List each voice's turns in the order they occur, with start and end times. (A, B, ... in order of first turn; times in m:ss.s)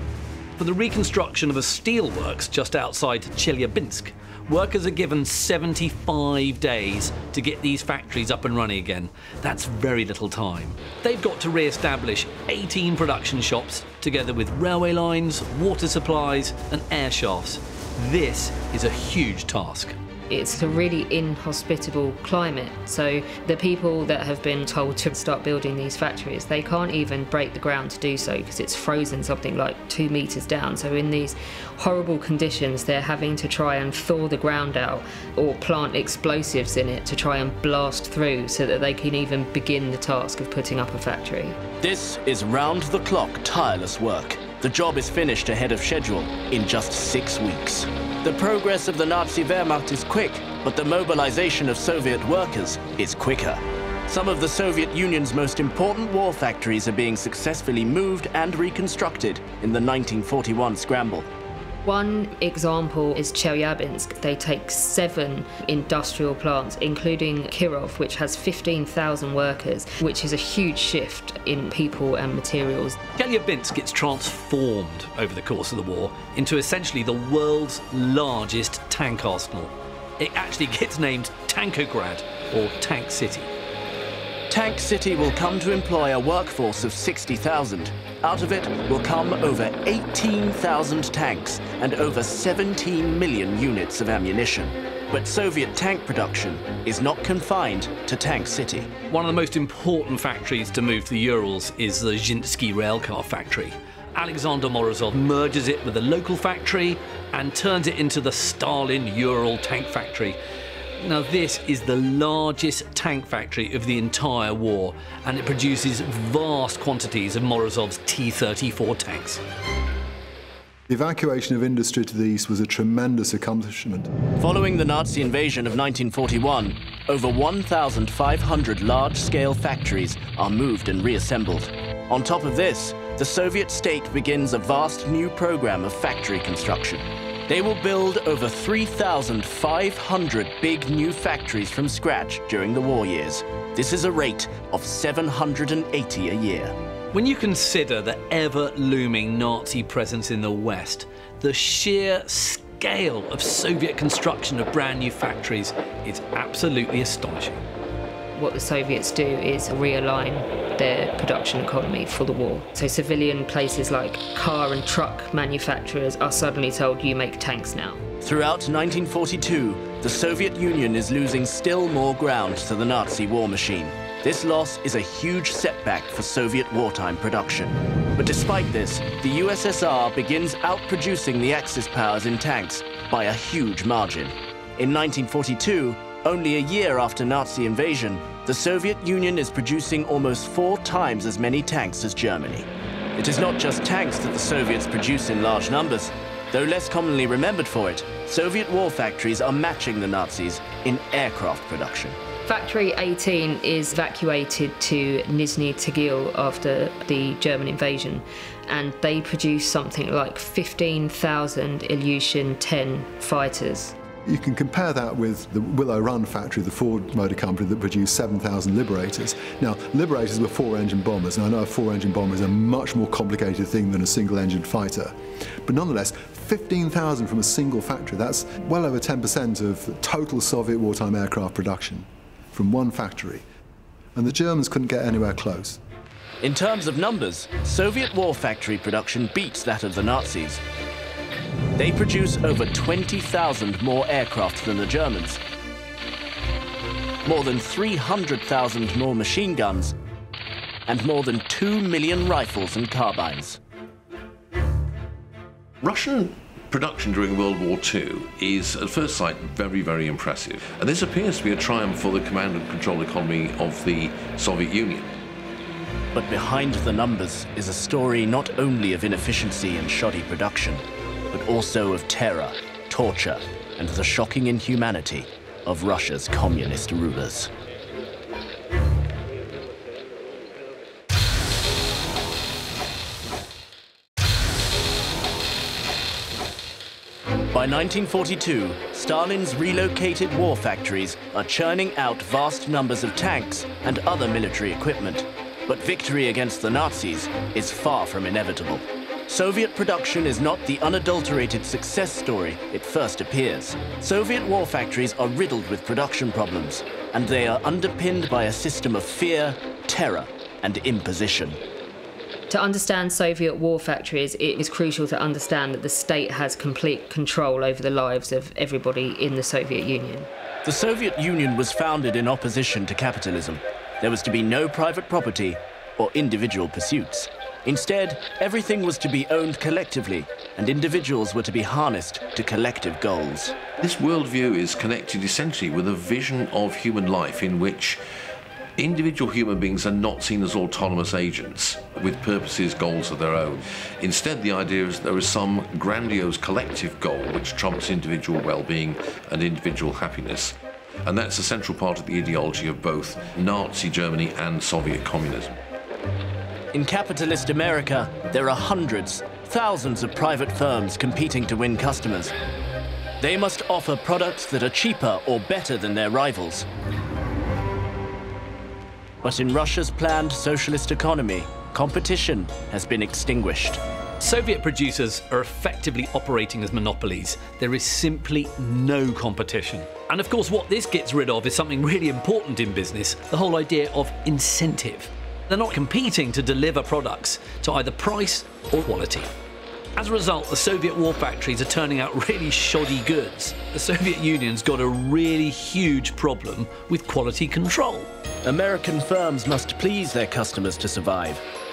0:00.6-0:20.0 A
0:20.3-0:41.6 B
0:41.8-1:01.3 C
1:01.8-1:13.0 B
1:13.2-1:23.5 A
1:24.5-1:38.9 C
1:39.1-1:50.4 A
1:51.0-1:59.4 A
2:00.9-2:04.1 D
2:04.4-2:26.8 C
2:27.1-2:37.6 A
2:38.4-2:48.0 B
2:48.2-3:22.2 C
3:22.5-3:34.0 B
3:34.2-3:53.4 D
3:54.2-3:55.8 D
3:56.4-4:00.6 C
4:01.8-4:05.4 C
4:07.2-4:10.0 C
4:10.9-4:13.6 C
4:15.8-4:25.1 E
4:26.1-4:37.5 C
4:47.5-5:11.6 C
5:12.5-5:20.3 B
5:20.6-5:33.6 C
5:33.8-5:38.0 E
5:38.8-5:55.6 E
5:56.7-6:02.3 C
6:03.2-6:06.7 C
6:09.2-6:13.8 C
6:14.2-6:29.3 A
6:30.0-6:38.1 A
6:38.4-6:41.4 C